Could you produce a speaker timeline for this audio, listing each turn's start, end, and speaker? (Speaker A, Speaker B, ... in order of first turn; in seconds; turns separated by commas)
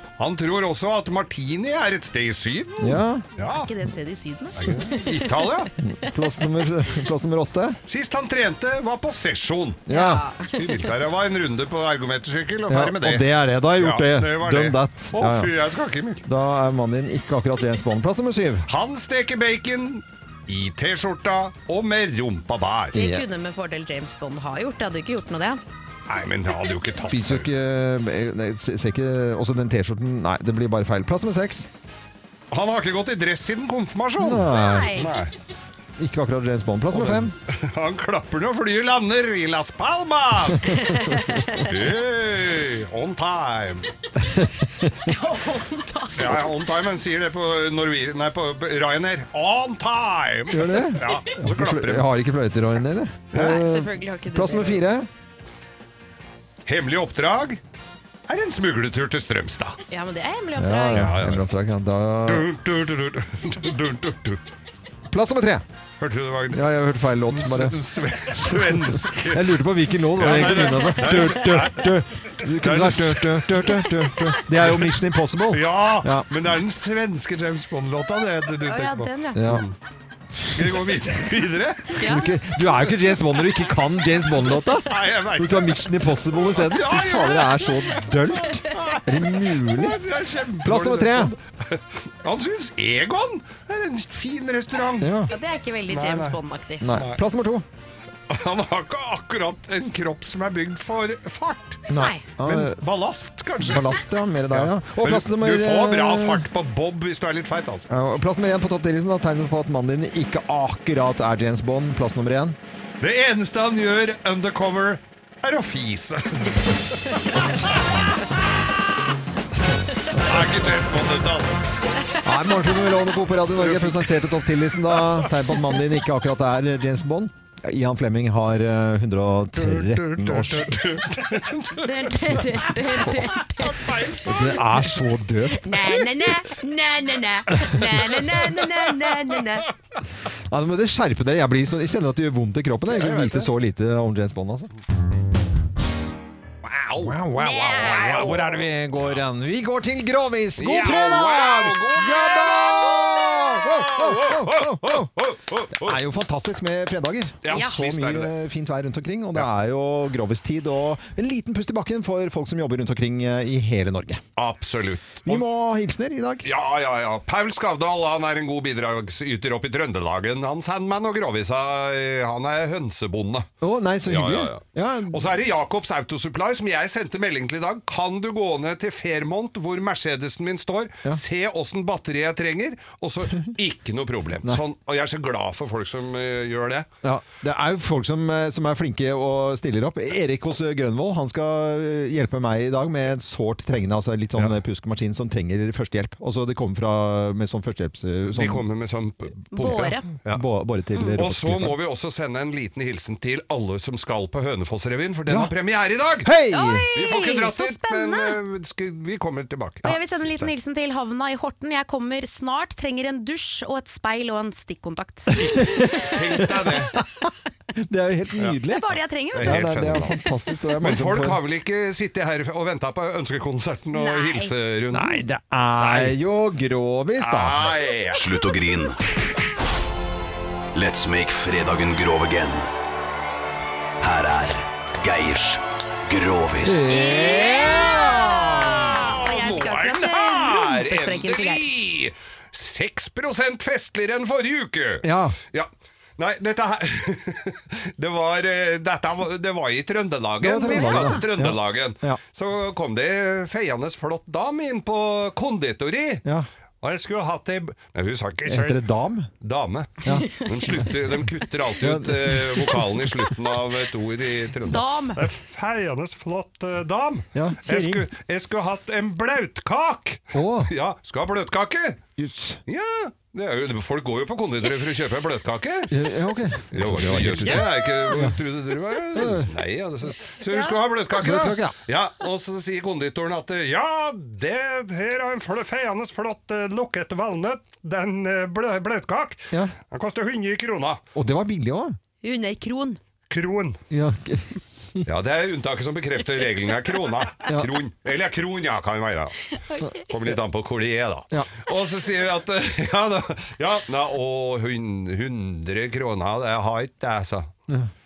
Speaker A: 0.2-3.7, Speaker B: 2.8-3.2, Speaker C: 3.5-5.3, Speaker A: 4.6-5.7, Speaker B: 5.8-7.8, Speaker A: 7.9-9.8, Speaker B: 9.9-10.2, Speaker C: 9.9-10.8, Speaker A: 10.5-16.2, Speaker B: 12.7-15.5, Speaker B: 16.2-18.7, Speaker A: 18.7-22.9, Speaker B: 22.9-23.2, Speaker C: 22.9-25.6, Speaker A: 26.1-27.5, Speaker B: 27.0-31.7, Speaker A: 32.5-35.3, Speaker B: 34.2-34.9, Speaker C: 34.5-35.3, Speaker B: 36.0-37.3, Speaker A: 36.9-40.8, Speaker C: 40.7-41.7, Speaker A: 41.5-43.9, Speaker B: 44.2-45.1, Speaker C: 45.0-46.5, Speaker A: 46.1-52.1, Speaker B: 50.5-55.1, Speaker C: 51.0-51.3, Speaker C: 53.3-54.8, Speaker A: 53.3-53.6, Speaker A: 56.6-57.6, Speaker A: 58.3-59.8, Speaker C: 59.9-61.1, Speaker B: 60.6-62.5, Speaker A: 60.9-61.5, Speaker A: 62.2-64.4, Speaker B: 65.1-65.6, Speaker A: 66.0-66.6, Speaker B: 66.5-67.8, Speaker A: 67.3-69.5, Speaker B: 68.3-76.3, Speaker A: 70.2-71.9, Speaker C: 70.8-71.2, Speaker A: 72.4-73.8, Speaker A: 74.6-74.9, Speaker A: 75.5-79.7, Speaker C: 78.7-79.6, Speaker B: 79.3-79.7, Speaker A: 80.5-82.0, Speaker C: 82.0-82.3, Speaker B: 82.0-90.0, Speaker A: 84.8-95.2, Speaker B: 90.6-91.3, Speaker B: 95.0-95.3, Speaker C: 95.3-96.8, Speaker A: 95.9-96.4, Speaker B: 96.8-97.6, Speaker A: 96.9-97.2, Speaker A: 98.3-107.9, Speaker B: 101.9-102.8, Speaker C: 101.9-102.3, Speaker B: 103.6-106.5, Speaker B: 107.9-112.6, Speaker A: 113.0-117.2, Speaker B: 117.3-118.4, Speaker A: 120.2-121.5, Speaker B: 122.2-130.8, Speaker A: 123.6-124.2, Speaker A: 125.0-125.3, Speaker A: 129.6-134.6, Speaker C: 131.8-134.1, Speaker B: 134.2-136.1, Speaker C: 135.5-139.7, Speaker B: 140.5-144.7, Speaker A: 142.9-143.5, Speaker A: 146.6-148.6, Speaker B: 147.0-155.1, Speaker C: 147.3-148.3, Speaker A: 150.6-156.0, Speaker B: 155.7-164.2, Speaker A: 157.4-158.3, Speaker C: 157.5-157.8, Speaker A: 164.4-165.4, Speaker B: 165.2-166.5, Speaker A: 166.4-173.5, Speaker B: 173.6-175.2, Speaker A: 174.1-186.9, Speaker B: 187.0-198.6, Speaker A: 198.3-200.4, Speaker C: 199.5-200.1, Speaker B: 200.3-201.8, Speaker A: 201.1-206.3, Speaker B: 205.3-205.5, Speaker B: 206.2-206.8, Speaker C: 206.5-208.3, Speaker A: 206.9-210.5, Speaker C: 209.8-215.9, Speaker B: 215.3-221.4, Speaker A: 216.0-216.9, Speaker C: 218.7-219.6, Speaker A: 219.3-220.1, Speaker A: 220.8-225.2, Speaker C: 223.9-224.5, Speaker B: 224.9-227.7, Speaker A: 225.8-226.2, Speaker A: 227.2-228.2, Speaker D: 228.1-229.0, Speaker D: 230.7-232.7, Speaker D: 234.0-236.9, Speaker B: 236.6-238.3, Speaker C: 236.8-241.6, Speaker A: 238.6-256.2, Speaker B: 245.0-245.4, Speaker B: 250.4-252.2, Speaker C: 250.7-251.2, Speaker A: 256.8-258.8, Speaker B: 258.5-259.3, Speaker A: 259.4-272.0, Speaker B: 260.1-260.3, Speaker C: 260.1-260.4, Speaker B: 261.8-262.9, Speaker C: 264.6-265.2, Speaker B: 267.3-268.1, Speaker B: 270.3-270.7, Speaker B: 272.2-272.6, Speaker A: 272.7-276.0, Speaker B: 275.9-278.4, Speaker A: 276.7-291.0, Speaker B: 279.1-279.5, Speaker C: 280.5-280.8, Speaker B: 281.2-281.7, Speaker B: 291.1-291.9, Speaker C: 292.2-293.0, Speaker A: 293.3-293.8, Speaker B: 293.9-295.1, Speaker A: 295.0-299.4, Speaker B: 297.4-297.7, Speaker C: 299.7-300.1, Speaker A: 300.0-307.5